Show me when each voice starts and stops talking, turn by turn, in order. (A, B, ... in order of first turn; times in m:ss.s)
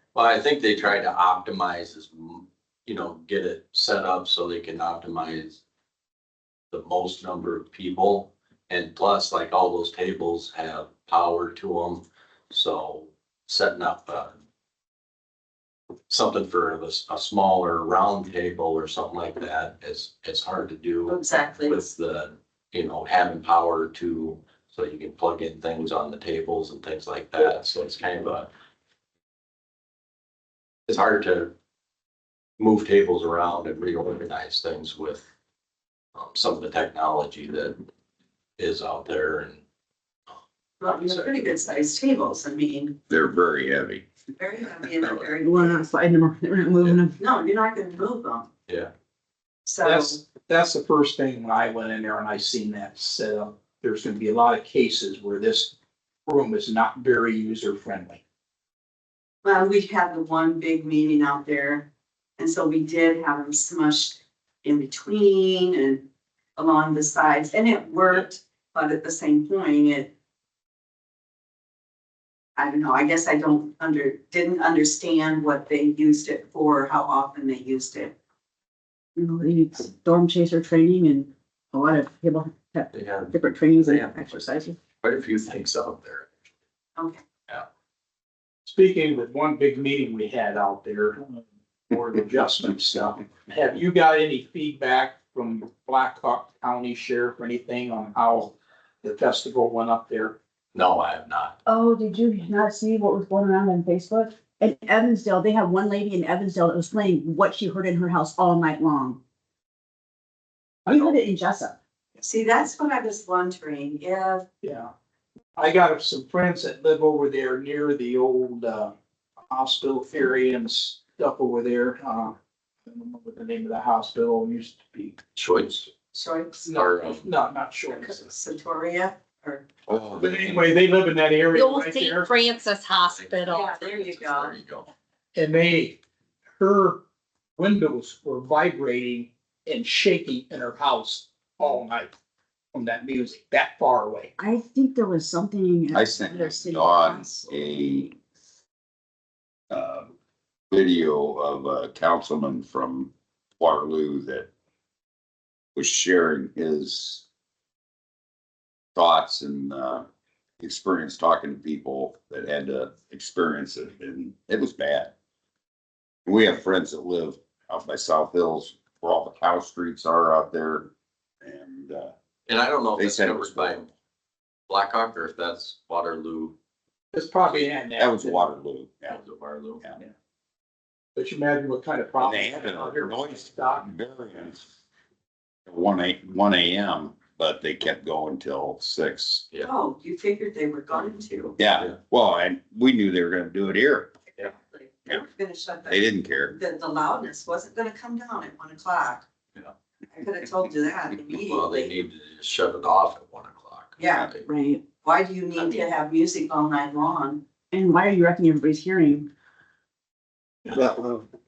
0:00.1-0:05.6 A
0:06.7-0:14.3 A
0:16.1-0:28.5 A
0:21.1-0:21.9 B
0:30.9-0:31.5 A
0:32.6-0:35.2 A
0:36.1-0:37.8 A
0:38.6-0:39.6 A
0:40.8-0:43.0 B
0:41.0-0:41.3 A
0:43.1-0:44.0 C
0:44.4-0:45.9 B
0:45.0-0:45.3 A
0:45.4-0:47.2 D
0:47.2-0:48.5 B
0:49.6-0:50.2 B
0:49.8-0:55.7 E
0:56.2-0:58.2 E
0:59.4-1:06.0 B
1:06.6-1:10.1 B
1:12.6-1:18.1 B
1:19.2-1:24.8 D
1:22.9-1:26.3 A
1:28.6-1:40.4 E
1:40.7-1:41.6 A
1:41.6-1:49.2 D
1:50.8-1:51.8 D
1:52.2-1:54.4 B
1:54.6-1:54.9 E
1:55.6-1:58.9 E
1:59.5-2:02.4 E
2:02.9-2:05.2 E
2:05.3-2:05.9 A
2:06.1-2:06.7 B
2:06.7-2:08.3 E
2:06.7-2:07.2 A
2:08.0-2:09.7 B
2:09.9-2:10.6 C
2:10.2-2:12.3 E
2:11.5-2:13.7 F
2:13.1-2:14.9 A
2:13.5-2:14.5 B
2:15.3-2:16.0 E
2:16.5-2:17.0 E
2:17.6-2:22.1 E
2:22.7-2:24.3 E
2:24.4-2:27.5 D
2:25.9-2:28.1 C
2:29.7-2:30.1 C
2:30.7-2:34.5 C
2:35.8-2:37.2 C
2:38.9-2:40.1 C
2:40.6-2:45.1 C
2:46.2-2:50.9 C
2:51.4-2:52.1 C
2:52.5-2:53.9 A
2:53.0-2:53.8 C
2:54.7-2:56.6 A
2:57.1-2:58.5 E
2:58.0-2:59.2 C
2:59.1-2:59.8 A
3:01.2-3:03.9 E
3:02.2-3:04.7 C
3:05.7-3:09.4 C
3:09.6-3:11.6 B
3:11.6-3:14.1 C
3:14.4-3:19.2 B
3:15.9-3:16.6 C
3:20.1-3:21.9 B
3:21.3-3:24.5 A
3:24.0-3:24.3 B
3:24.4-3:24.8 D
3:25.0-3:27.4 B
3:27.7-3:29.3 D
3:30.7-3:31.2 C